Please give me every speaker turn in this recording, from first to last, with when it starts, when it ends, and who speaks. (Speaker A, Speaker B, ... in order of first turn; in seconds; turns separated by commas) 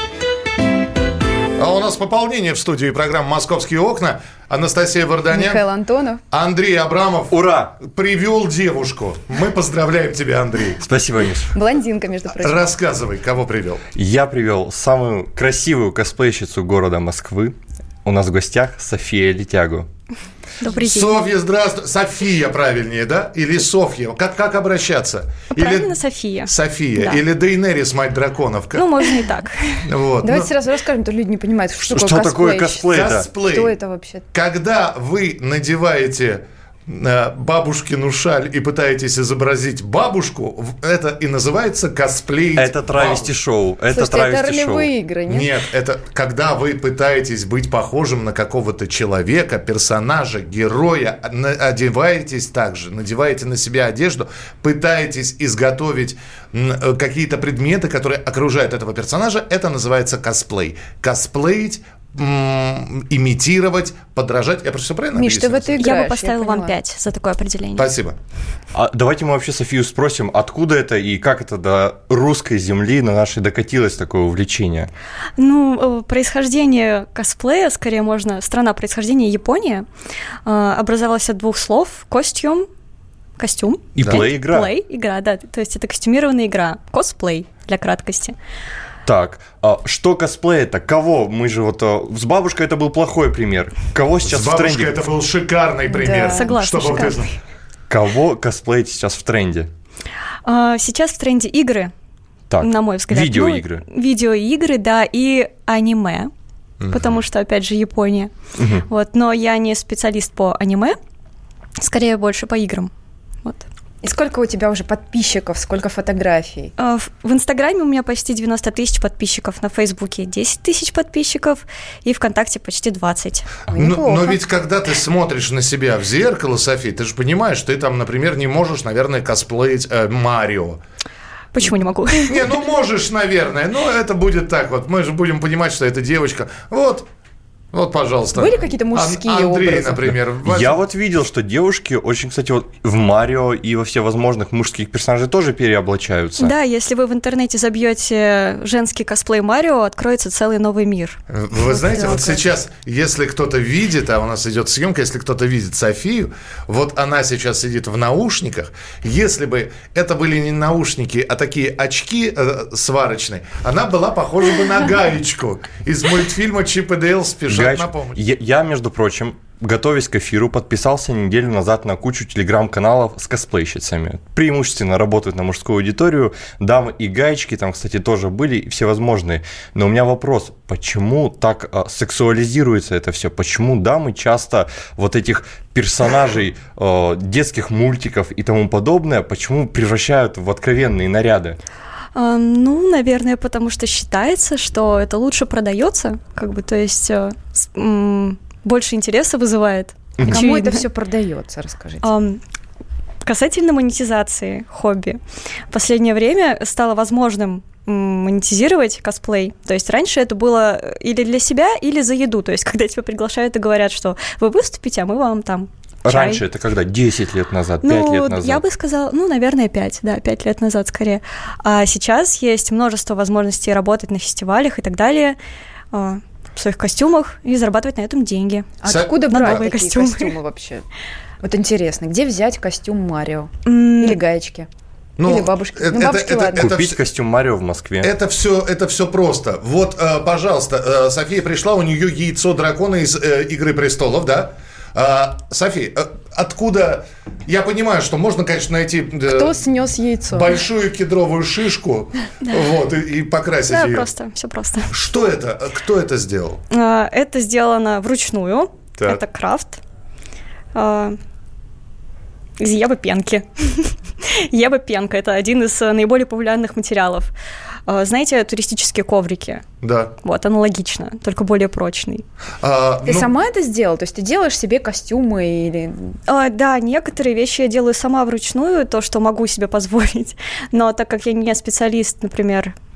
Speaker A: 1.6-5.7, Speaker B: 5.3-6.2, Speaker A: 6.3-10.8, Speaker C: 7.3-7.7, Speaker C: 10.8-11.5, Speaker B: 11.5-12.7, Speaker A: 12.4-13.8, Speaker C: 14.0-19.9, Speaker D: 20.6-21.2, Speaker A: 20.7-29.1, Speaker D: 25.5-27.2, Speaker D: 28.7-29.9, Speaker A: 29.8-30.5, Speaker B: 30.2-32.9, Speaker C: 31.8-33.3, Speaker A: 32.9-33.8, Speaker B: 33.4-34.2, Speaker A: 34.3-43.3, Speaker C: 42.6-44.9, Speaker B: 43.9-45.5, Speaker A: 45.3-65.9, Speaker B: 65.1-66.8, Speaker D: 65.8-67.9, Speaker A: 67.8-68.2, Speaker C: 68.7-74.9, Speaker D: 75.4-79.9, Speaker D: 80.5-82.7, Speaker D: 83.4-88.4, Speaker C: 84.0-84.7, Speaker A: 84.0-84.2, Speaker C: 89.0-95.0, Speaker A: 94.2-97.3, Speaker D: 95.9-97.3, Speaker B: 96.2-96.5, Speaker C: 97.9-99.7, Speaker D: 100.5-101.9, Speaker C: 102.5-103.8, Speaker D: 102.6-106.3, Speaker A: 106.8-107.2, Speaker D: 106.9-108.3, Speaker C: 108.6-108.9, Speaker D: 108.9-111.0, Speaker D: 111.8-112.9, Speaker B: 114.0-116.7, Speaker D: 116.8-123.5, Speaker B: 123.7-124.4, Speaker A: 123.7-130.8, Speaker D: 131.5-132.4, Speaker A: 132.2-137.1, Speaker A: 137.7-140.8, Speaker B: 138.3-140.0, Speaker C: 140.1-146.6, Speaker D: 146.4-151.2, Speaker A: 151.3-168.2, Speaker B: 151.9-152.3, Speaker C: 167.5-191.6, Speaker D: 192.2-200.8, Speaker C: 200.2-200.4, Speaker B: 200.2-202.1, Speaker D: 202.0-202.4, Speaker D: 203.2-205.2, Speaker D: 205.7-216.4, Speaker C: 216.1-218.6, Speaker D: 217.8-225.4, Speaker D: 225.9-228.8, Speaker B: 228.8-230.8, Speaker A: 228.8-229.7, Speaker D: 229.3-230.3, Speaker B: 231.4-234.7, Speaker D: 233.7-234.2, Speaker A: 235.2-237.0, Speaker B: 235.2-236.7, Speaker C: 236.6-238.1, Speaker A: 238.0-249.6, Speaker B: 249.3-250.6, Speaker A: 250.3-254.1, Speaker D: 253.7-254.9, Speaker A: 254.9-256.6, Speaker D: 256.7-259.8, Speaker D: 260.7-261.2, Speaker D: 262.6-267.3, Speaker D: 267.9-269.6, Speaker A: 269.8-270.1, Speaker D: 270.2-272.2, Speaker A: 272.6-273.3, Speaker B: 273.1-276.0, Speaker D: 276.3-282.7